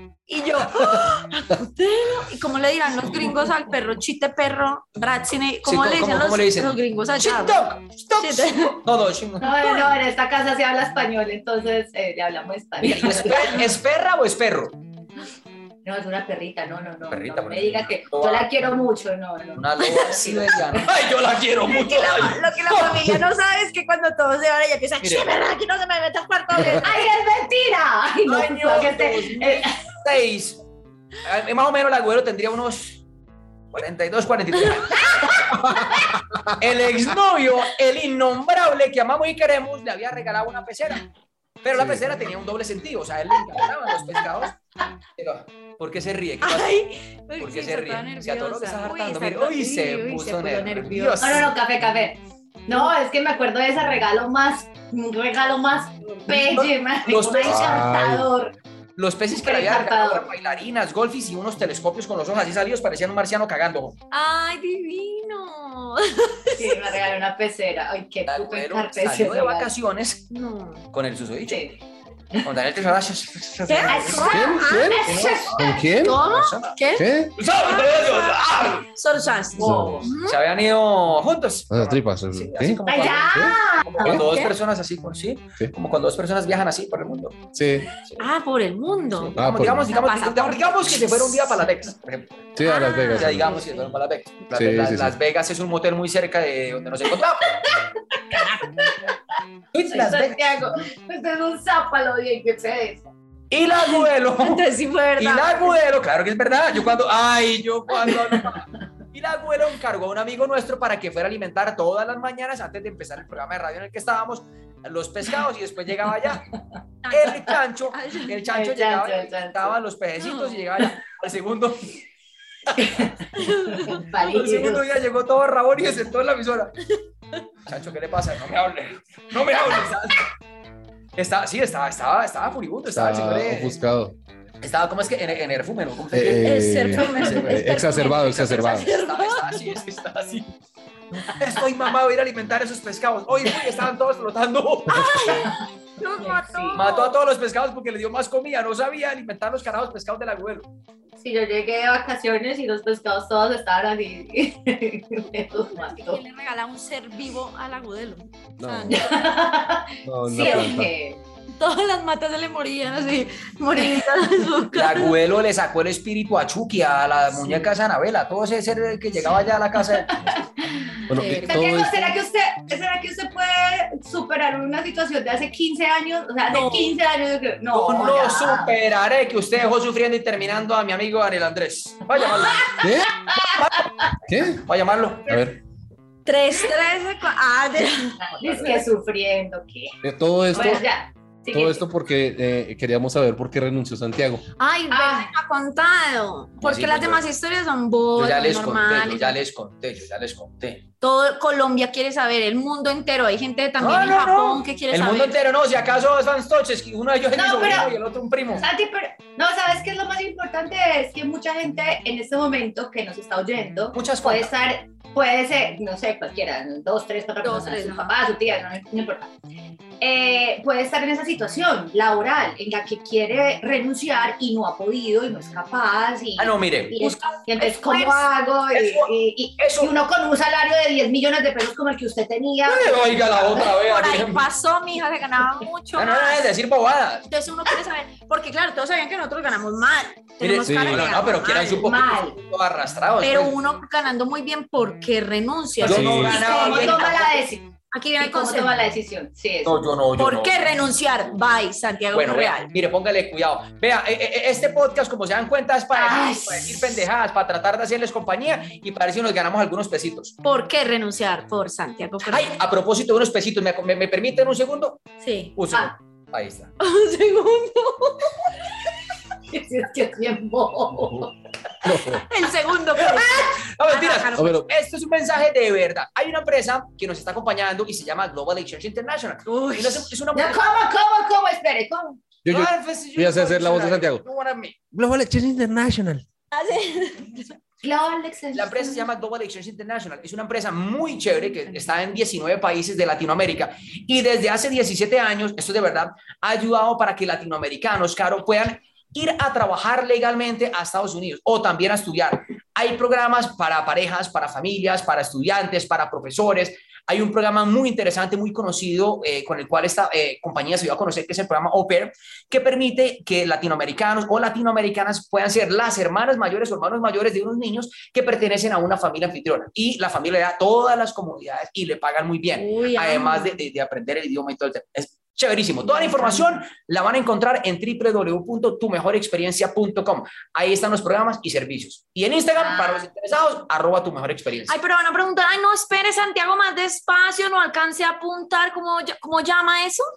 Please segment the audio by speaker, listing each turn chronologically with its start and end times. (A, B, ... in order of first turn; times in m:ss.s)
0:00.3-0:07.6 A
0:05.6-0:09.5 B
0:08.2-0:08.8 A
0:09.4-0:13.6 C
0:09.5-0:09.8 A
0:12.8-0:14.8 B
0:15.8-0:20.8 C
0:17.1-0:18.5 B
0:19.6-0:23.1 B
0:21.6-0:27.0 A
0:25.0-0:25.3 B
0:26.8-0:29.7 C
0:28.2-0:30.6 B
0:31.2-0:33.0 B
0:33.7-0:35.3 B
0:34.6-0:35.4 A
0:36.6-0:41.0 B
0:41.6-0:44.6 B
0:41.7-0:42.0 D
0:45.2-0:46.8 B
0:46.4-0:51.4 A
0:47.4-0:51.5 B
0:51.2-0:58.6 C
0:56.5-0:57.8 B
0:57.4-0:58.3 D
0:59.0-1:04.0 B
0:59.3-1:00.3 C
1:04.1-1:07.0 A
1:06.6-1:09.7 C
1:08.3-1:10.3 B
1:10.3-1:10.8 A
1:10.9-1:11.7 B
1:11.5-1:11.8 C
1:12.4-1:14.3 B
1:13.7-1:15.1 A
1:13.9-1:15.8 C
1:14.2-1:16.2 D
1:15.1-1:16.8 B
1:16.0-1:20.4 A
1:16.9-1:17.4 D
1:17.4-1:18.8 B
1:19.6-1:20.0 D
1:19.6-1:20.1 C
1:20.2-1:27.4 B
1:21.7-1:24.2 D
1:22.9-1:24.2 C
1:24.1-1:24.5 A
1:27.5-1:27.9 D
1:28.0-1:28.3 B
1:28.2-1:29.4 A
1:29.1-1:32.5 B
1:29.4-1:29.9 D
1:29.9-1:31.7 A
1:32.6-1:33.6 D
1:32.6-1:33.8 A
1:33.1-1:37.6 B
1:34.5-1:35.1 D
1:39.7-1:40.4 B
1:39.9-1:43.1 C
1:43.5-1:44.7 B
1:43.8-1:45.8 A
1:45.2-1:56.4 B
1:57.0-1:58.4 A
1:57.1-2:02.0 B
1:58.5-1:59.8 C
2:00.2-2:00.6 A
2:02.7-2:03.1 B
2:02.8-2:04.9 C
2:03.4-2:04.0 A
2:04.2-2:06.8 B
2:07.7-2:10.3 B
2:11.2-2:13.8 B
2:12.9-2:14.2 D
2:14.6-2:20.5 B
2:16.1-2:18.9 D
2:16.4-2:19.8 A
2:21.2-2:25.5 B
2:24.9-2:27.2 A
2:26.2-2:26.8 C
2:26.7-2:30.7 B
2:31.2-2:36.2 C
2:35.6-2:39.4 A
2:38.6-2:39.1 D
2:38.9-2:41.2 C
2:40.0-2:40.9 D
2:40.4-2:40.8 A
2:41.6-2:45.2 A
2:44.7-2:50.4 B
2:50.1-2:58.7 C
2:51.1-2:52.2 D
2:51.1-2:51.5 A
2:56.5-2:57.0 A
2:57.7-3:02.7 B
3:02.8-3:03.1 D
3:03.3-3:03.6 C
3:03.6-3:03.8 B
3:04.3-3:04.7 D
3:04.6-3:05.5 B
3:05.3-3:05.6 D
3:06.2-3:08.2 A
3:08.2-3:09.9 C
3:08.4-3:08.8 B
3:10.0-3:10.8 D
3:10.5-3:11.8 C
3:11.5-3:14.4 D
3:14.6-3:19.4 A
3:14.9-3:15.3 C
3:16.6-3:17.2 B
3:18.2-3:20.8 B
3:21.0-3:25.4 A
3:23.8-3:28.7 B
3:27.4-3:27.9 C
3:28.6-3:39.3 C
3:33.9-3:34.5 B
3:37.4-3:38.2 A
3:40.0-3:53.6 C
3:46.4-3:47.2 B
3:47.0-3:48.2 A
3:48.7-3:49.9 B
3:52.6-3:54.5 B
3:53.7-3:56.5 A
3:56.0-3:57.3 B
3:57.3-4:01.8 A
4:00.4-4:03.6 B
4:00.6-4:01.2 D
4:01.8-4:02.4 C
4:03.2-4:07.3 A
4:05.8-4:07.3 B
4:05.8-4:06.4 D
4:06.2-4:09.9 C
4:07.9-4:08.7 A
4:09.6-4:10.8 B
4:10.2-4:12.7 A
4:12.1-4:20.4 B
4:15.9-4:17.0 C
4:20.4-4:22.6 A
4:22.3-4:25.0 B
4:25.2-4:25.6 A
4:25.6-4:26.7 B
4:26.8-4:28.4 A
4:29.5-4:31.3 C
4:31.0-4:31.3 D
4:31.8-4:32.2 D
4:32.3-4:34.6 A
4:33.0-4:40.7 B
4:34.4-4:34.6 D
4:39.5-4:40.1 A
4:40.3-4:42.2 C
4:42.4-4:44.2 D
4:42.5-4:44.8 B
4:44.9-4:46.2 D
4:46.5-4:47.5 A
4:47.8-4:49.1 C
4:48.5-5:34.8 B
5:22.6-5:23.6 A
5:32.6-5:33.1 C
5:34.7-5:40.0 A